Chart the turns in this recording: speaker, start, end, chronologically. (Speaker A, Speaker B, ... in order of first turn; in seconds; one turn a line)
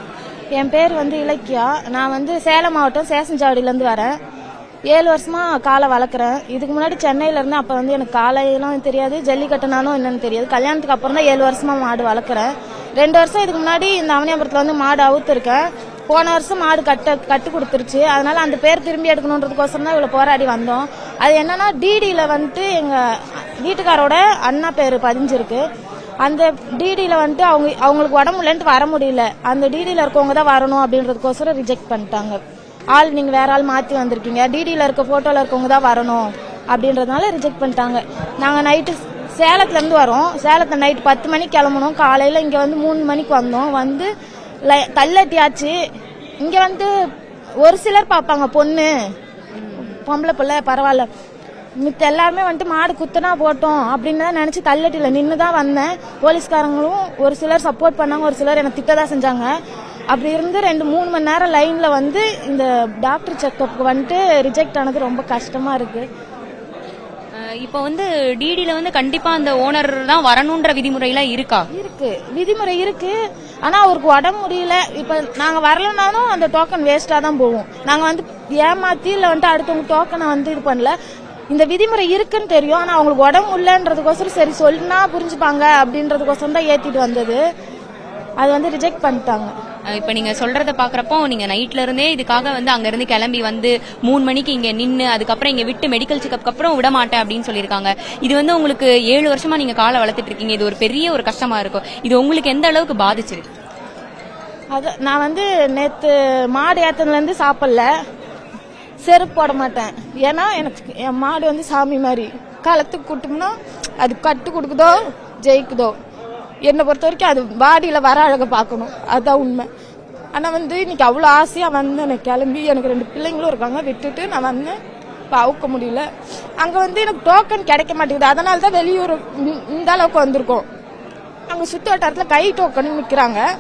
Speaker A: 0.6-4.1
Speaker A: 4.9-25.6
Speaker A: 26.2-32.4
Speaker A: 33.0-44.1
Speaker A: 44.7-45.8
Speaker A: 46.4-46.9
Speaker A: 47.6-48.9
Speaker B: 49.6-49.9
Speaker A: 49.8-51.1
Speaker A: 51.8-59.5
Speaker A: 60.1-66.1
Speaker B: 67.4-71.7
Speaker A: 71.7-81.0
Speaker A: 81.5-87.4
Speaker A: 88.4-89.5
Speaker B: 89.9-103.5
Speaker A: 104.7-107.9
Speaker A: 109.0-116.0
Speaker A: 116.7-119.7
Speaker A: 120.3-124.8
Speaker A: 125.3-126.1
Speaker A: 126.6-130.7
Speaker A: 131.5-133.4